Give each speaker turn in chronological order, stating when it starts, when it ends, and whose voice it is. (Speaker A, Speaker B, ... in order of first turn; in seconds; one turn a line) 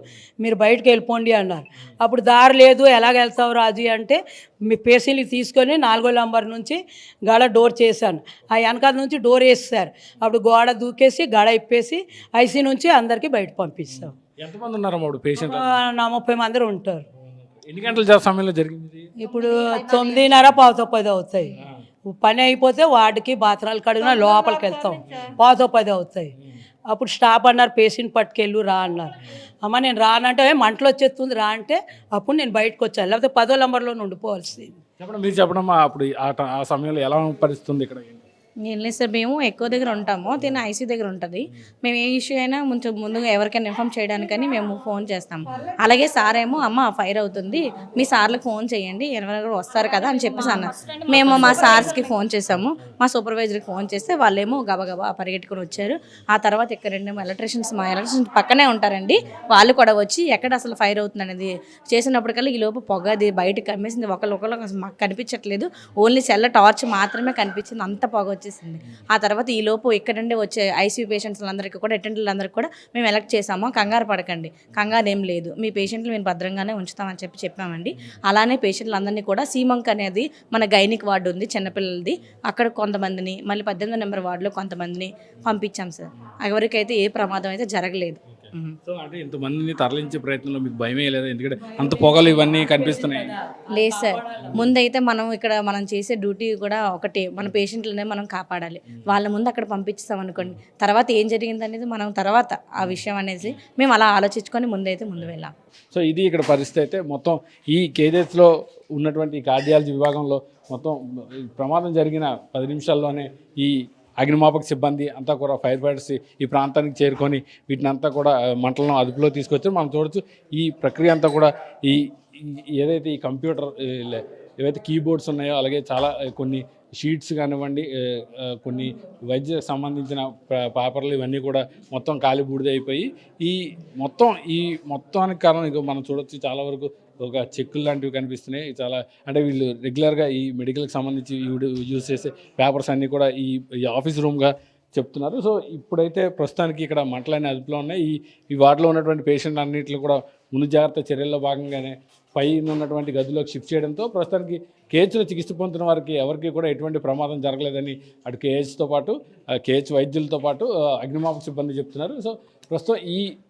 Speaker A: 0.4-14.2
Speaker B: 14.4-15.7
Speaker A: 15.3-17.1
Speaker B: 17.3-19.1
Speaker A: 19.2-21.5
Speaker A: 22.1-26.3
Speaker A: 26.9-34.7
Speaker B: 35.0-38.2
Speaker C: 38.6-88.8
Speaker B: 88.3-93.4
Speaker C: 93.7-105.5
Speaker A: 93.8-94.2
Speaker B: 105.9-163.3